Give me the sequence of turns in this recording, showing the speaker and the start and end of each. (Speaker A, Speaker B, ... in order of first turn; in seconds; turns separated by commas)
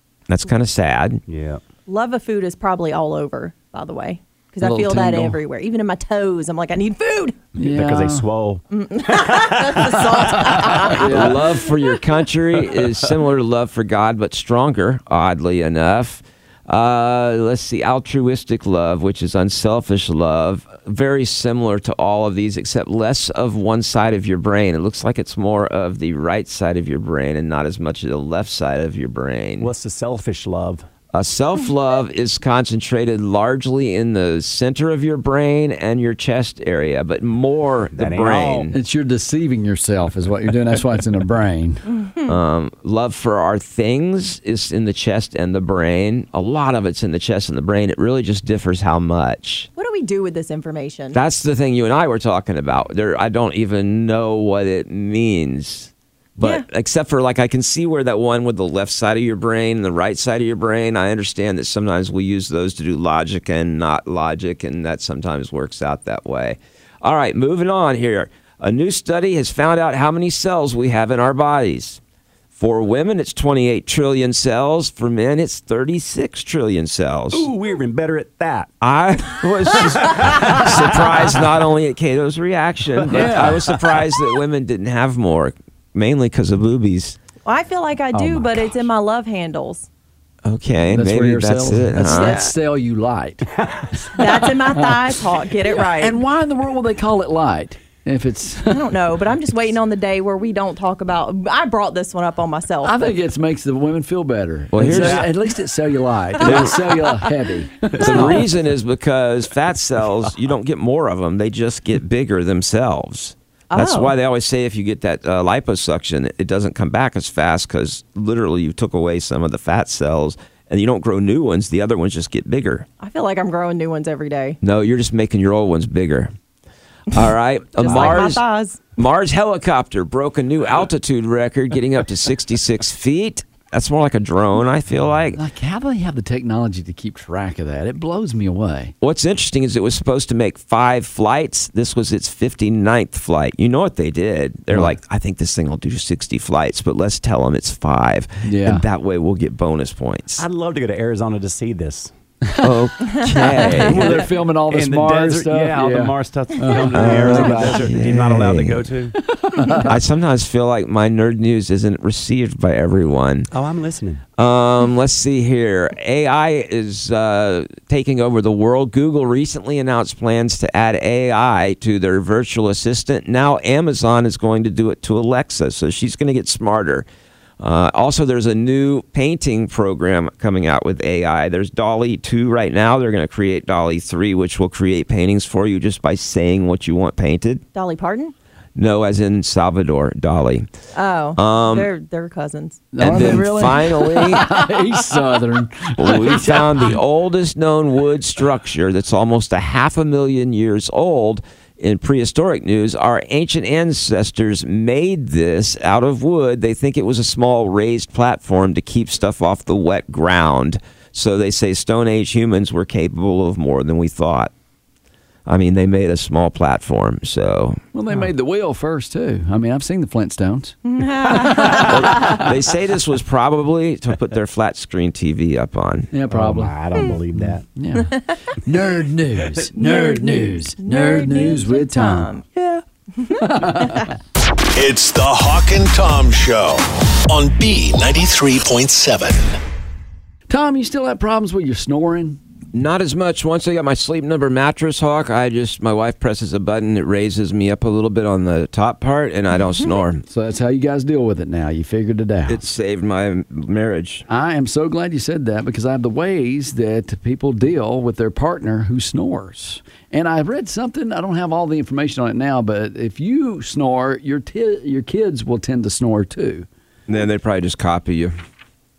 Speaker A: 0.3-1.2, Speaker B: 1.3-1.6, Speaker C: 1.9-7.4, Speaker D: 4.6-5.4, Speaker D: 7.5-8.3, Speaker B: 7.6-10.7, Speaker C: 8.7-11.1, Speaker D: 10.3-11.5, Speaker A: 11.0-29.7, Speaker B: 29.6-30.8, Speaker A: 31.1-38.7, Speaker B: 37.9-38.7, Speaker D: 38.7-41.8, Speaker C: 42.0-42.3, Speaker A: 42.3-49.7, Speaker C: 49.8-51.2, Speaker A: 51.1-72.0, Speaker C: 56.4-56.6, Speaker A: 72.5-77.5, Speaker B: 77.3-78.7, Speaker A: 78.8-87.2, Speaker B: 79.6-81.4, Speaker B: 83.0-84.0, Speaker D: 83.1-83.7, Speaker C: 87.5-89.9, Speaker D: 88.1-88.5, Speaker A: 90.4-92.4, Speaker D: 90.9-95.1, Speaker C: 92.0-92.5, Speaker C: 94.1-96.2, Speaker D: 95.7-98.9, Speaker C: 98.7-103.1, Speaker D: 102.8-108.4, Speaker A: 104.7-105.3, Speaker B: 104.8-105.3, Speaker A: 106.4-106.8, Speaker A: 108.0-122.9, Speaker C: 113.7-114.1, Speaker C: 123.0-124.6, Speaker A: 124.6-126.3, Speaker A: 127.1-128.4, Speaker C: 127.8-128.8, Speaker B: 127.8-128.2, Speaker A: 129.0-135.4, Speaker D: 135.3-138.9, Speaker A: 139.0-150.4, Speaker D: 148.4-148.8, Speaker B: 150.4-152.1, Speaker A: 152.6-154.2, Speaker D: 153.7-157.9, Speaker B: 153.8-159.2, Speaker A: 156.9-158.8, Speaker D: 159.3-159.9, Speaker A: 159.9-163.5, Speaker B: 163.5-164.2, Speaker A: 164.4-177.1, Speaker A: 177.6-187.6, Speaker C: 187.7-188.3, Speaker A: 188.8-190.7, Speaker C: 190.9-192.8, Speaker A: 191.4-191.9, Speaker D: 192.9-197.0, Speaker A: 193.0-194.4, Speaker A: 196.0-214.5, Speaker A: 215.4-217.8, Speaker D: 217.9-222.4, Speaker C: 220.8-222.0, Speaker A: 221.8-226.1, Speaker D: 226.1-226.8, Speaker B: 226.3-227.6, Speaker D: 227.3-232.3, Speaker C: 229.7-234.1, Speaker D: 233.4-234.1, Speaker E: 234.7-239.6, Speaker D: 240.5-242.4, Speaker A: 242.7-250.2, Speaker D: 250.3-252.6, Speaker A: 252.5-254.2, Speaker D: 254.3-266.6, Speaker A: 267.1-268.3